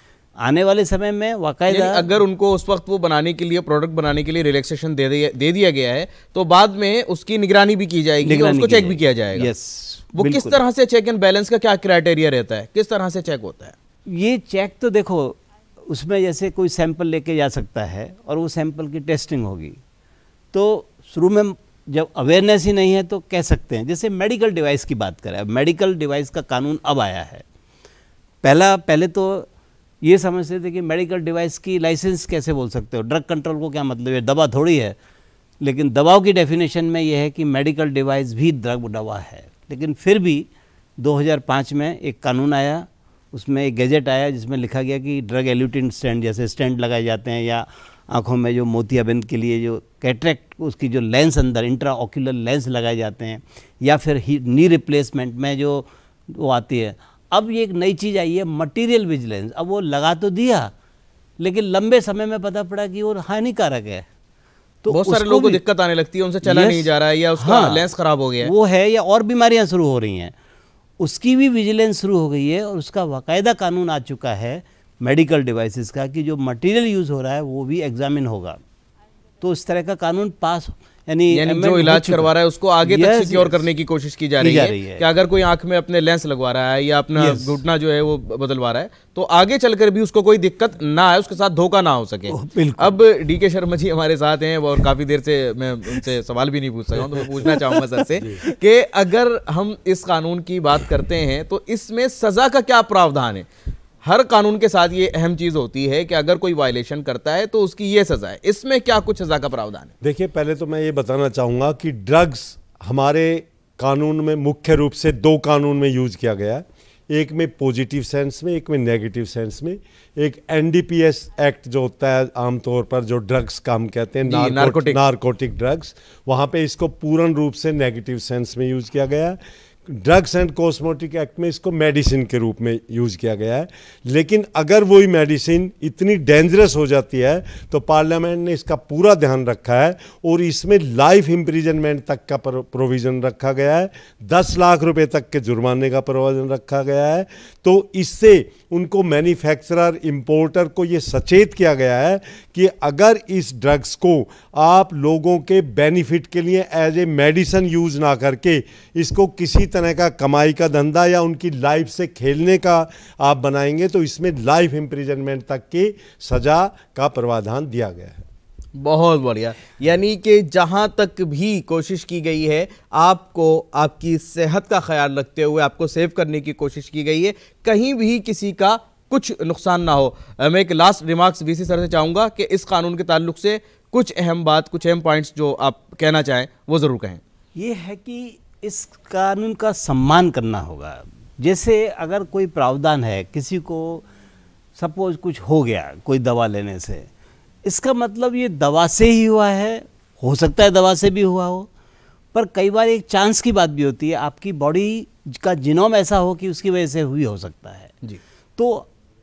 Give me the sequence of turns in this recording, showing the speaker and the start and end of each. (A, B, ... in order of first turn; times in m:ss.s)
0:00.4-0:02.1 A
0:01.7-0:09.5 B
0:08.2-0:10.6 A
0:10.2-0:13.7 B
0:14.1-0:19.8 A
0:20.5-0:27.4 A
0:28.4-0:29.5 A
0:30.0-0:35.0 A
0:35.6-0:40.5 A
0:41.0-1:00.7 A
1:01.4-1:04.1 A
1:04.8-1:05.6 A
1:04.9-1:08.5 B
1:06.4-1:07.9 A
1:08.4-1:10.3 A
1:11.0-1:18.6 A
1:19.4-1:22.3 A
1:21.3-1:43.4 B
1:22.8-1:23.6 A
1:24.4-1:25.0 A
1:27.2-1:27.6 A
1:32.3-1:33.0 A
1:37.1-1:38.5 A
1:44.0-1:49.9 B
1:50.0-2:48.2 C
2:04.2-2:05.0 B
2:48.8-3:07.2 B
3:07.6-3:14.0 A
3:14.8-3:17.1 A
3:17.6-3:21.7 A
3:22.3-3:27.9 A
3:28.6-3:28.9 A